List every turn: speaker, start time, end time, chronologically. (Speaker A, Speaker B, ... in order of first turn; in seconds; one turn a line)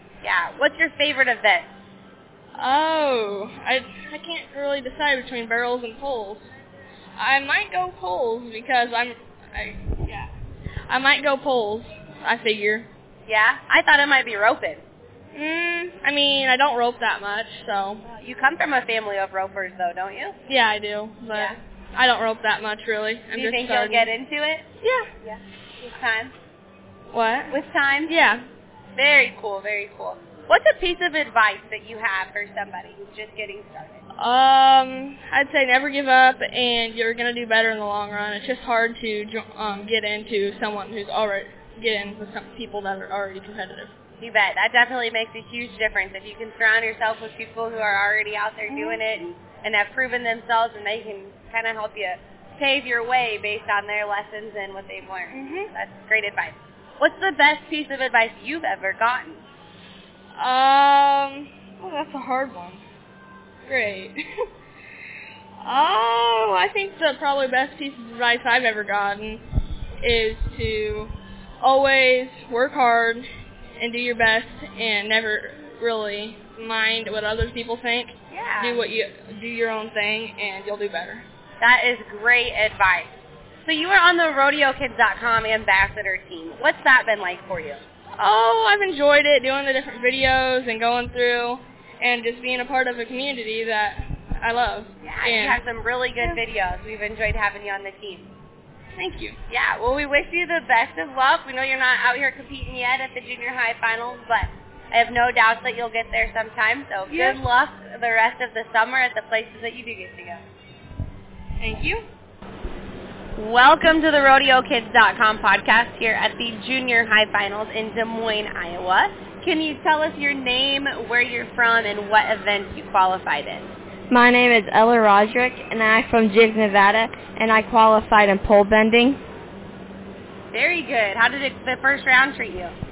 Speaker A: 0.2-1.7
Speaker B: 2.6-6.5
Speaker B: 7.2-10.3
Speaker B: 10.9-12.9
Speaker A: 13.3-14.8
Speaker B: 15.3-18.1
Speaker A: 18.2-20.4
Speaker B: 20.5-24.1
Speaker A: 21.3-21.6
Speaker A: 23.3-24.7
Speaker B: 24.8-25.1
Speaker A: 25.2-26.3
Speaker B: 27.1-28.4
Speaker A: 27.5-28.2
Speaker A: 29.0-34.0
Speaker B: 34.1-43.9
Speaker A: 44.2-59.5
Speaker B: 48.7-49.0
Speaker B: 55.3-55.7
Speaker B: 60.4-62.8
Speaker B: 63.7-64.2
Speaker B: 65.6-69.4
Speaker B: 70.0-81.2
Speaker A: 78.3-78.8
Speaker A: 81.6-83.1
Speaker A: 83.6-87.8
Speaker B: 88.2-95.6
Speaker A: 95.0-98.3
Speaker B: 99.0-99.4
Speaker A: 99.5-110.4
Speaker B: 107.1-107.4
Speaker B: 111.6-112.0
Speaker A: 113.3-123.7
Speaker C: 124.1-129.2
Speaker A: 130.5-132.8